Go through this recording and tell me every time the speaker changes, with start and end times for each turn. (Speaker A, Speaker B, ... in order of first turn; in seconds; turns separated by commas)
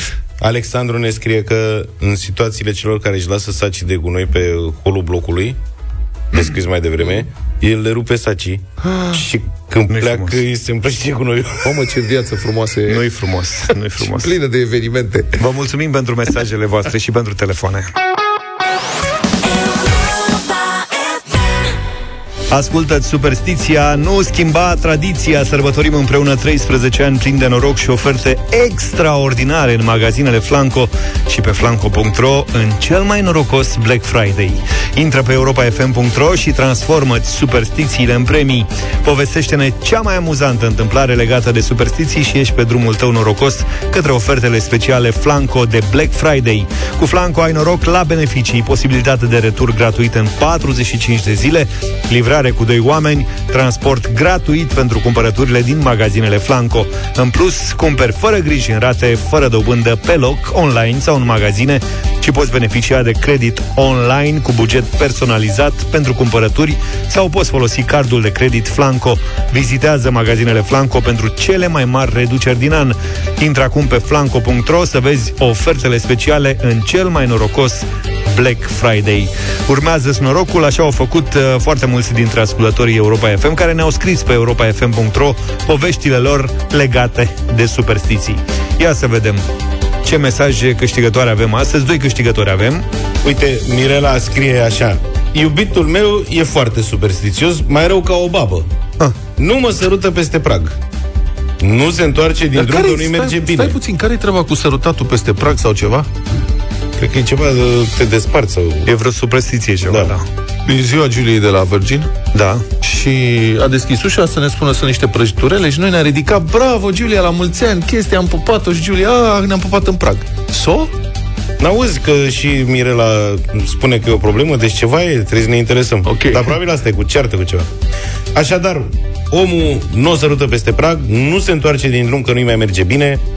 Speaker A: 0.4-5.6, Speaker A: 6.3-11.7, Speaker B: 8.8-9.2, Speaker C: 9.9-10.4, Speaker B: 11.6-13.1, Speaker C: 12.9-14.3, Speaker B: 14.0-15.4, Speaker C: 15.4-17.9, Speaker C: 22.5-89.4, Speaker C: 90.0-92.8, Speaker A: 93.2-98.7, Speaker A: 99.4-100.7, Speaker A: 101.6-103.7, Speaker B: 102.5-106.1, Speaker A: 107.0-108.9, Speaker C: 108.8-110.2, Speaker A: 109.9-110.2, Speaker B: 110.7-112.1, Speaker C: 112.3-112.6, Speaker B: 112.8-120.9, Speaker A: 121.6-127.7, Speaker B: 126.0-126.5, Speaker A: 128.3-133.2